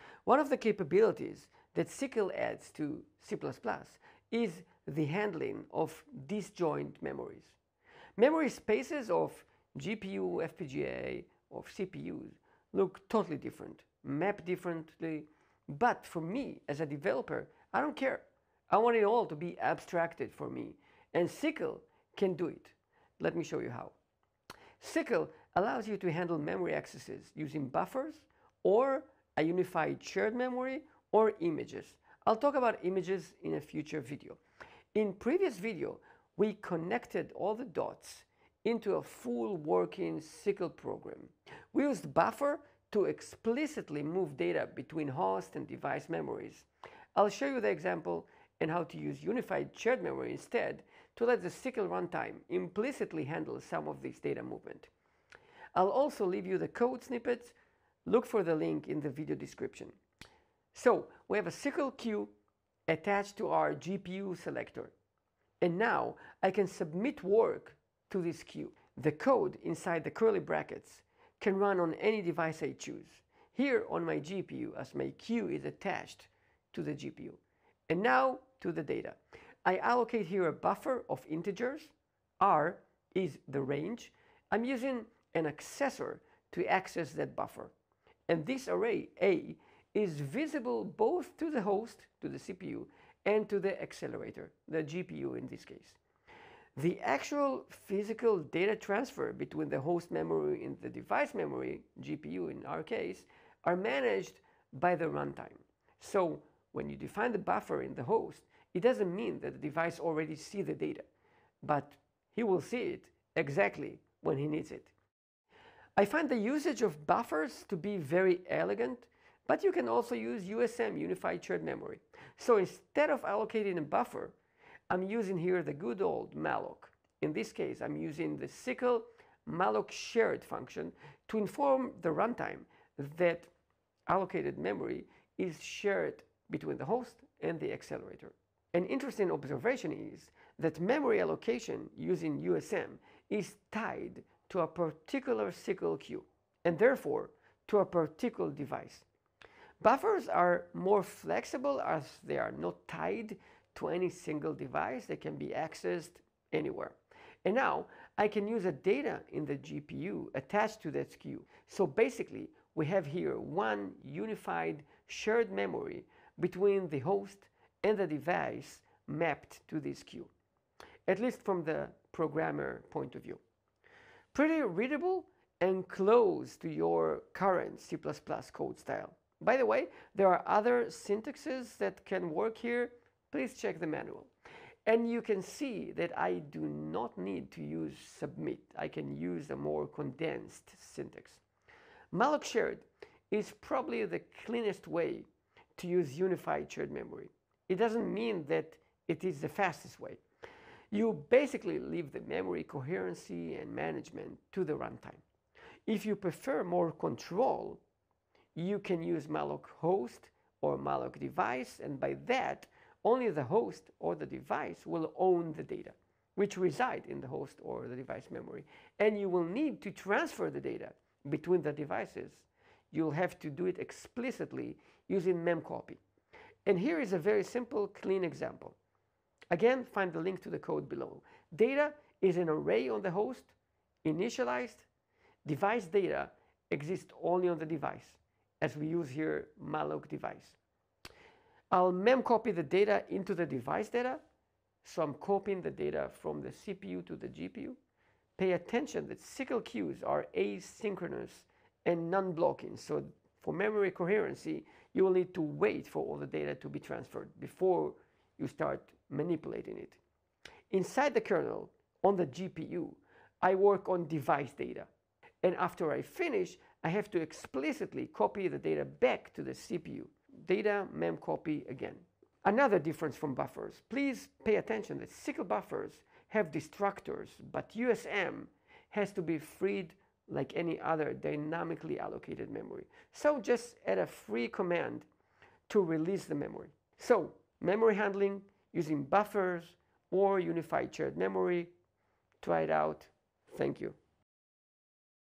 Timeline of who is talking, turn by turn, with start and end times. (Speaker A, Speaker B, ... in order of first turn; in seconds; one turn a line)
Speaker A: 0.2-7.5
Speaker A: 8.2-23.9
Speaker A: 24.8-34.4
Speaker A: 34.9-54.9
Speaker A: 55.7-57.5
Speaker A: 58.0-60.0
Speaker A: 60.7-62.3
Speaker A: 62.9-64.9
Speaker A: 65.6-87.7
Speaker A: 88.3-96.0
Speaker A: 96.8-111.1
Speaker A: 111.6-114.9
Speaker A: 116.0-124.3
Speaker A: 124.9-133.5
Speaker A: 134.1-149.1
Speaker A: 149.8-170.3
Speaker A: 171.1-173.4
Speaker A: 174.3-184.3
Speaker A: 184.8-191.4
Speaker A: 192.1-200.2
Speaker A: 200.9-205.2
Speaker A: 205.9-207.8
Speaker A: 208.5-226.0
Speaker A: 226.7-228.8
Speaker A: 229.5-234.9
Speaker A: 235.4-240.6
Speaker A: 241.7-244.2
Speaker A: 244.8-247.8
Speaker A: 248.4-260.0
Speaker A: 260.7-264.9
Speaker A: 265.4-285.1
Speaker A: 285.7-291.7
Speaker A: 292.4-294.0